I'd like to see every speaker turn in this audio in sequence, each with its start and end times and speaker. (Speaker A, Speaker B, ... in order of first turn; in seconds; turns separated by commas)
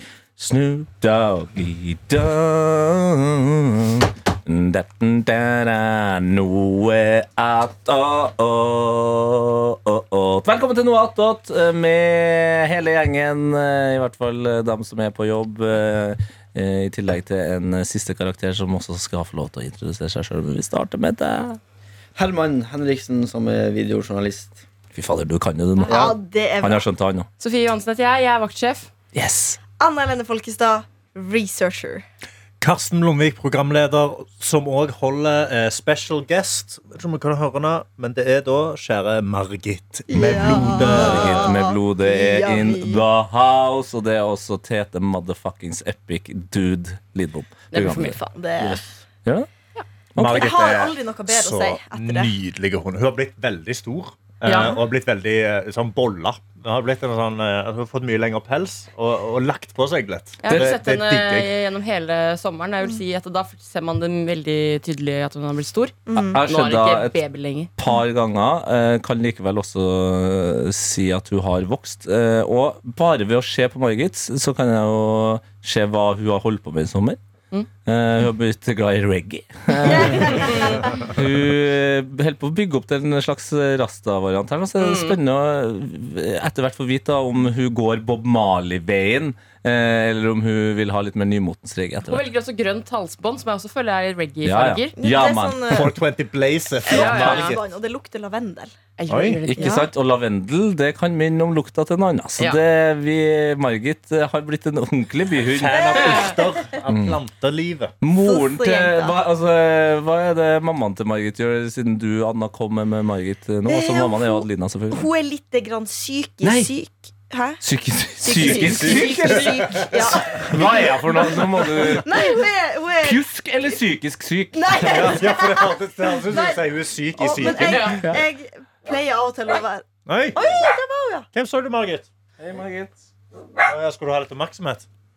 Speaker A: 0.4-21.6, Speaker B: 22.1-24.6, Speaker A: 24.9-27.3, Speaker C: 25.9-26.9, Speaker D: 27.4-28.9, Speaker A: 29.1-29.6, Speaker C: 29.8-32.0, Speaker E: 32.6-41.4, Speaker C: 40.1-43.0, Speaker A: 40.5-48.2, Speaker D: 47.7-48.2, Speaker C: 47.8-48.8, Speaker B: 48.6-48.9, Speaker A: 50.1-50.5, Speaker E: 50.2-61.5, Speaker C: 50.2-52.3, Speaker D: 54.4-54.8, Speaker D: 60.4-67.7, Speaker A: 60.5-60.8, Speaker C: 66.1-66.4, Speaker A: 66.2-67.2, Speaker A: 67.8-77.2, Speaker A: 77.8-80.5, Speaker C: 79.8-81.1, Speaker D: 80.2-80.9, Speaker A: 81.1-92.2, Speaker D: 84.8-85.2, Speaker D: 92.0-94.9, Speaker A: 94.4-95.9, Speaker C: 95.0-95.9, Speaker E: 95.7-97.6, Speaker C: 96.8-98.7, Speaker D: 96.9-97.5, Speaker A: 97.0-97.4, Speaker D: 99.0-99.9, Speaker E: 99.1-99.4, Speaker A: 99.5-106.1, Speaker E: 105.4-107.9, Speaker C: 105.5-106.8, Speaker A: 106.9-107.2, Speaker A: 108.0-115.1, Speaker C: 108.2-109.2, Speaker C: 113.7-117.6, Speaker A: 116.4-116.7, Speaker A: 117.6-122.2, Speaker C: 118.2-123.8, Speaker E: 118.9-119.8, Speaker A: 123.0-125.3, Speaker C: 124.5-131.3, Speaker E: 124.9-128.0, Speaker D: 127.4-128.0, Speaker E: 130.1-130.4, Speaker E: 131.3-132.1, Speaker A: 132.4-132.9, Speaker E: 133.7-134.9